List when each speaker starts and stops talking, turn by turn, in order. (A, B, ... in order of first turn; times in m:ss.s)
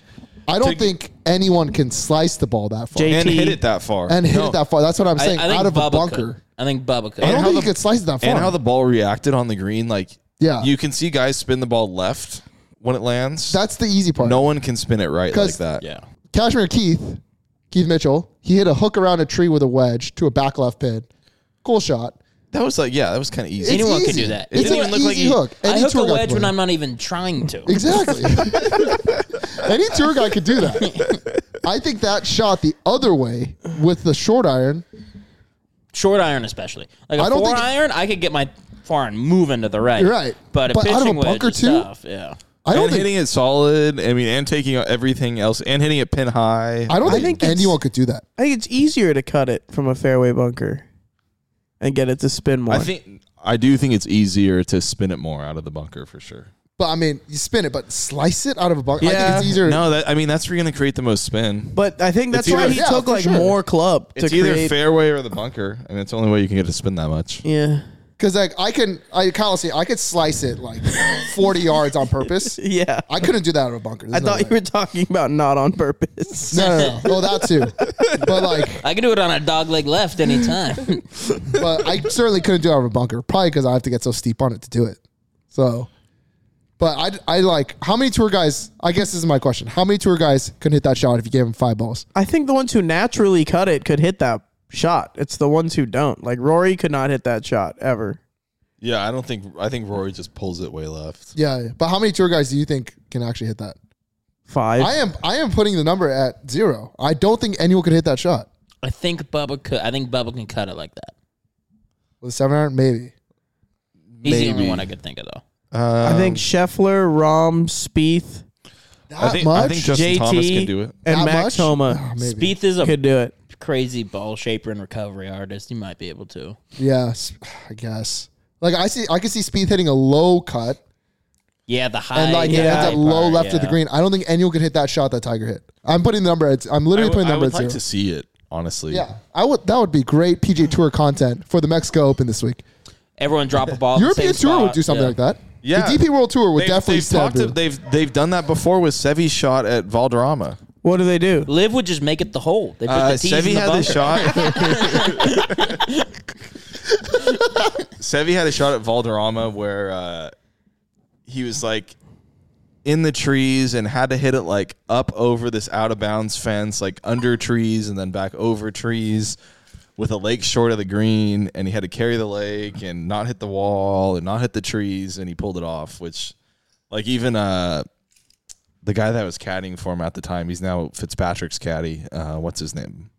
0:00.5-0:03.4 A
0:00.6-0:00.9 B
0:03.0-0:03.6 C
0:03.1-0:04.6 B
0:04.1-0:06.4 A
0:05.2-0:07.4 D
0:07.2-0:13.6 B
0:07.2-0:08.6 A
0:10.4-0:10.7 A
0:13.5-0:14.5 A
0:14.2-0:15.8 B
0:15.3-0:15.6 A
0:16.3-0:21.1 A
0:21.6-0:22.2 A
0:22.5-0:25.4 B
0:23.6-0:26.5 A
0:23.7-0:25.0 D
0:25.6-0:28.2 D
0:27.7-0:29.0 A
0:29.5-0:30.9 A
0:30.9-0:31.2 D
0:31.6-0:34.8 A
0:35.9-0:42.4 D
0:37.2-0:37.7 A
0:40.0-0:41.9 A
0:42.6-0:43.1 A
0:42.7-0:47.4 B
0:46.9-0:48.2 A
0:47.0-0:47.8 C
0:48.4-0:50.8 C
0:51.8-0:52.9 C
0:52.7-0:56.5 B
0:56.8-0:59.8 A
0:59.0-0:59.6 C
0:59.1-1:01.8 B
1:01.8-1:04.7 C
1:02.3-1:02.8 B
1:02.5-1:03.6 A
1:04.2-1:07.4 B
1:07.4-1:07.8 C
1:08.2-1:14.6 A
1:12.6-1:13.0 C
1:14.1-1:17.4 C
1:16.5-1:18.8 A
1:17.8-1:18.2 B
1:18.8-1:21.1 D
1:21.5-1:25.0 A
1:25.5-1:25.9 A
1:26.8-1:32.0 A
1:32.2-1:38.2 C
1:38.8-1:41.3 B
1:41.4-1:43.8 A
1:44.5-1:44.9 C
1:44.8-1:48.5 A
1:48.8-1:51.1 D
1:52.2-1:53.1 A
1:54.2-1:54.9 B
1:54.2-1:55.4 D
1:55.7-1:56.4 B
1:56.0-1:58.4 C
1:59.1-1:59.9 A
1:59.2-2:01.0 B
1:59.7-2:02.0 C
2:01.1-2:02.6 A
2:02.2-2:03.0 D
2:02.8-2:03.3 C
2:03.5-2:06.6 D
2:06.8-2:10.8 A
2:11.7-2:13.8 D
2:12.2-2:17.8 A
2:12.4-2:13.0 C
2:16.9-2:19.0 B
2:18.9-2:22.6 A
2:23.2-2:25.2 D
2:24.0-2:27.6 A
2:25.6-2:26.0 B
2:26.6-2:30.6 B
2:30.8-2:31.5 C
2:31.5-2:36.1 D
2:32.9-2:35.8 B
2:38.0-2:40.3 B
2:41.3-2:42.0 B
2:42.8-2:49.4 B
2:50.0-2:56.4 B
2:56.9-2:57.9 B
2:58.8-3:03.1 B